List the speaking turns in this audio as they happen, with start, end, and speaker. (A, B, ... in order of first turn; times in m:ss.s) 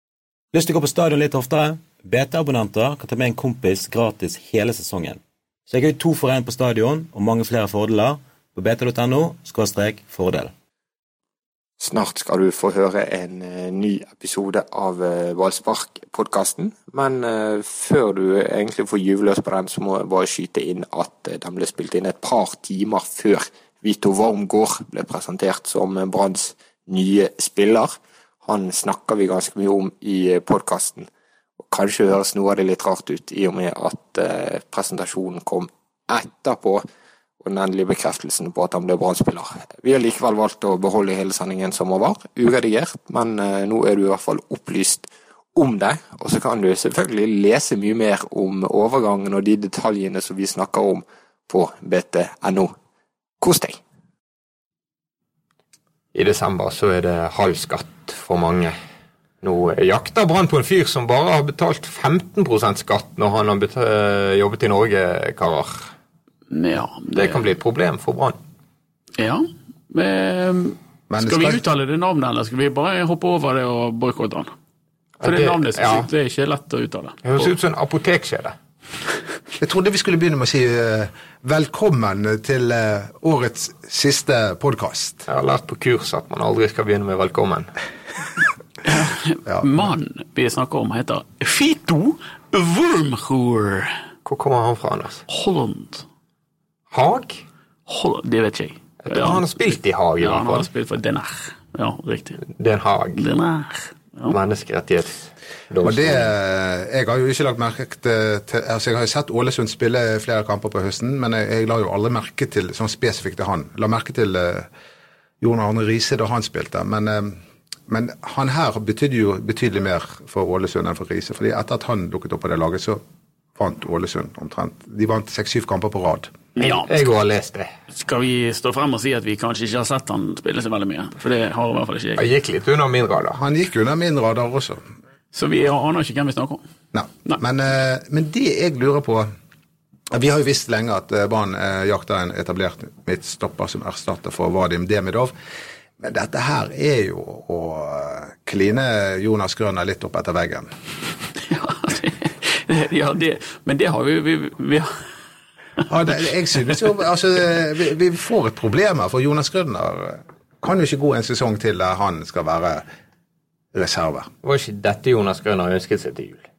0:00.5-0:10.5 A
0:11.8-0:31.1 B
0:31.6-0:36.8 B
0:37.4-0:52.7 B
0:53.4-0:53.8 B
0:56.1-0:58.7 C
0:59.4-1:05.9 C
1:06.5-1:07.4 D
1:07.1-1:08.4 C
1:09.2-1:14.5 D
1:11.1-1:11.6 E
1:15.2-1:16.1 C
1:15.2-1:17.5 D
1:17.2-1:18.5 C
1:19.6-1:25.2 E
1:25.3-1:27.7 C
1:28.8-1:34.0 D
1:34.2-1:35.2 C
1:35.3-1:36.0 D
1:36.9-1:37.4 C
1:37.9-1:39.4 D
1:39.0-1:40.7 C
1:40.2-1:42.4 D
1:42.5-1:43.2 C
1:43.1-1:44.3 D
1:44.3-1:46.3 C
1:45.8-1:54.7 E
1:55.4-2:03.0 E
2:03.6-2:06.4 E
2:06.6-2:06.9 D
2:06.6-2:07.7 C
2:07.9-2:12.2 D
2:12.2-2:13.4 C
2:13.3-2:14.8 E
2:15.3-2:16.6 D
2:16.9-2:19.3 E
2:20.1-2:25.3 E
2:26.0-2:30.7 E
2:31.4-2:35.0 D
2:35.9-2:42.8 E
2:43.7-2:44.3 E
2:44.4-2:46.4 C